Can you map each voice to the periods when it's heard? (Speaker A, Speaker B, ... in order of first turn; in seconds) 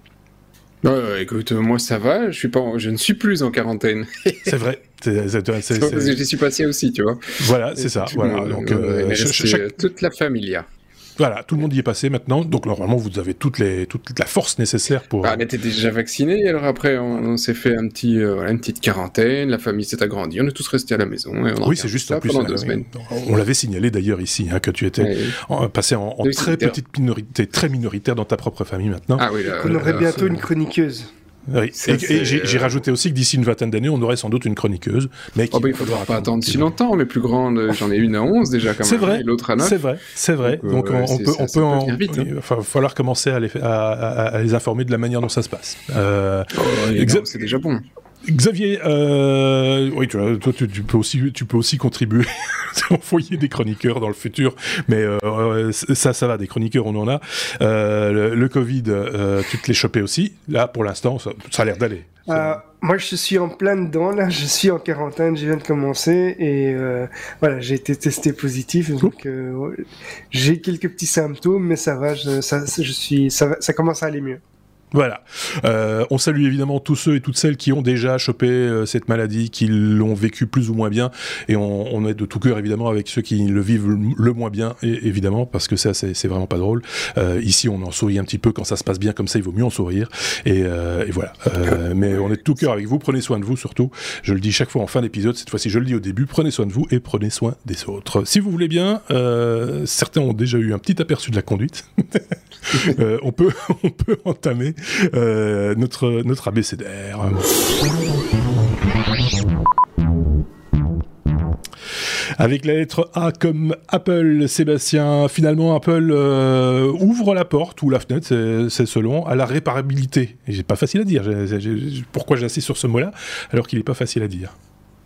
Speaker A: 0.8-4.5, 5.7-10.7, 15.2-22.9, 25.0-25.4, 26.2-26.8, 29.2-30.3, 31.8-32.8, 35.5-39.8, 40.4-42.3, 46.5-47.8
Speaker B: 4.5-6.2, 7.4-9.7, 11.2-15.4, 21.6-30.4, 31.5-36.7, 38.8-47.3, 48.2-62.6, 74.9-107.5, 112.3-124.5
Speaker C: 29.6-31.1, 62.3-74.4